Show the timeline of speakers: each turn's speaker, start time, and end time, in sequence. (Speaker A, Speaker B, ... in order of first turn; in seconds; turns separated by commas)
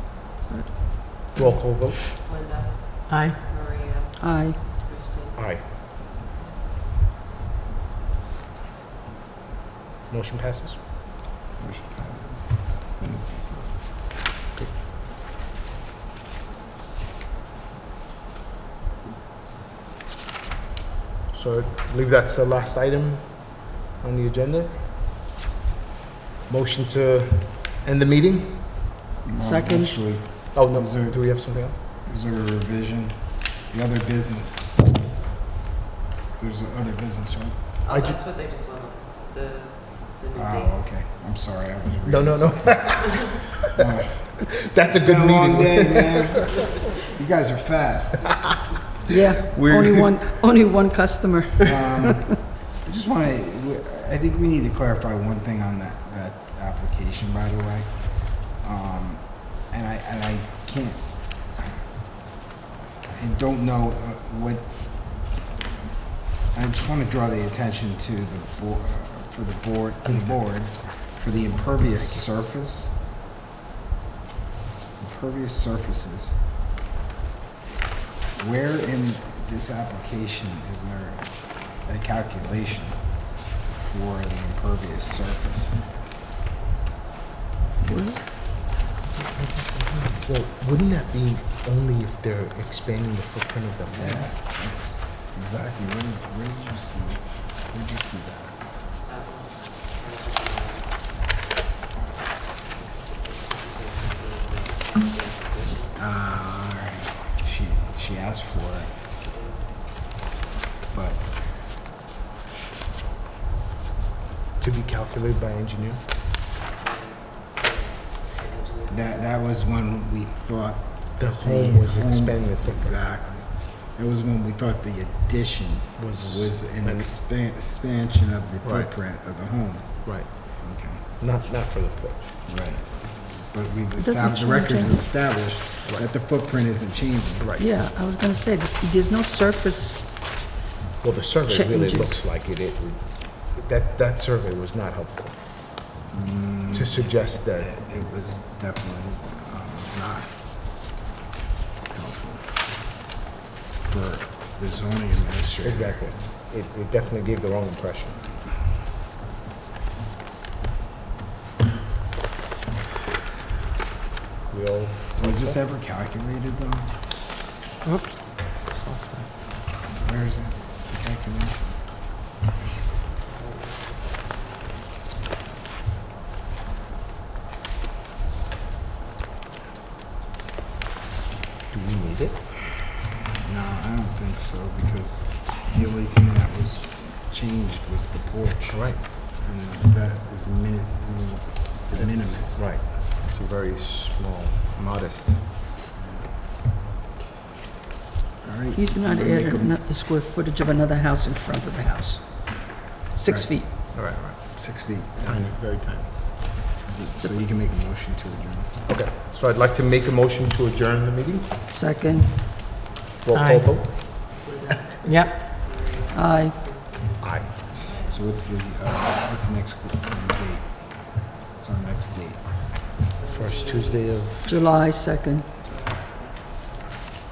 Speaker A: 0.3-1.4, Speaker B: 1.4-2.0, Speaker C: 2.2-5.3, Speaker D: 3.1-3.4, Speaker A: 4.2-4.6, Speaker B: 5.4-5.7, Speaker B: 10.1-10.8, Speaker E: 11.6-13.9, Speaker B: 21.3-24.9, Speaker B: 26.5-28.8, Speaker E: 29.2-35.0, Speaker A: 29.4-30.0, Speaker B: 30.5-31.8, Speaker E: 36.4-37.7, Speaker C: 37.9-40.9, Speaker B: 37.9-38.2, Speaker E: 40.3-43.2, Speaker B: 42.1-43.4, Speaker E: 43.8-48.6, Speaker B: 44.6-46.3, Speaker A: 49.1-52.3, Speaker B: 49.6-49.9, Speaker E: 51.6-61.9, Speaker E: 63.1-65.3, Speaker E: 66.5-73.0, Speaker B: 70.0-70.9, Speaker B: 71.5-72.2, Speaker E: 75.0-76.4, Speaker E: 78.4-85.9, Speaker A: 87.8-88.2, Speaker B: 89.2-94.3, Speaker E: 93.9-98.7, Speaker C: 99.1-101.0, Speaker C: 102.8-105.9, Speaker E: 106.0-109.0, Speaker C: 109.2-109.7, Speaker E: 110.9-111.3, Speaker B: 114.6-116.0, Speaker C: 116.8-119.1, Speaker E: 118.9-131.0, Speaker B: 121.2-123.0, Speaker B: 126.0-127.1, Speaker B: 128.6-128.9, Speaker B: 130.0-132.4, Speaker E: 132.4-137.5, Speaker A: 134.0-135.0, Speaker B: 137.4-137.7, Speaker A: 137.6-140.6, Speaker B: 141.0-145.6, Speaker A: 141.4-142.2, Speaker E: 146.1-150.5, Speaker B: 146.7-147.8, Speaker E: 151.9-153.0, Speaker E: 153.8-156.2, Speaker B: 155.6-158.4, Speaker B: 164.5-165.6, Speaker E: 165.2-167.0, Speaker D: 167.8-169.2, Speaker E: 169.9-171.7, Speaker B: 181.7-182.5, Speaker E: 183.4-192.7, Speaker B: 188.7-189.0, Speaker B: 191.9-195.5, Speaker E: 196.0-196.4, Speaker E: 198.4-199.8, Speaker A: 198.7-203.7, Speaker E: 203.3-205.5, Speaker B: 203.9-206.2, Speaker E: 206.6-208.9, Speaker B: 208.9-211.6, Speaker A: 211.7-212.7, Speaker B: 213.2-214.6, Speaker D: 213.3-213.8, Speaker C: 214.4-218.0, Speaker D: 215.0-215.4, Speaker A: 216.1-216.8, Speaker B: 217.2-217.6, Speaker E: 218.0-222.8, Speaker C: 223.2-224.4, Speaker B: 223.3-224.5, Speaker A: 224.4-225.5, Speaker C: 225.6-226.4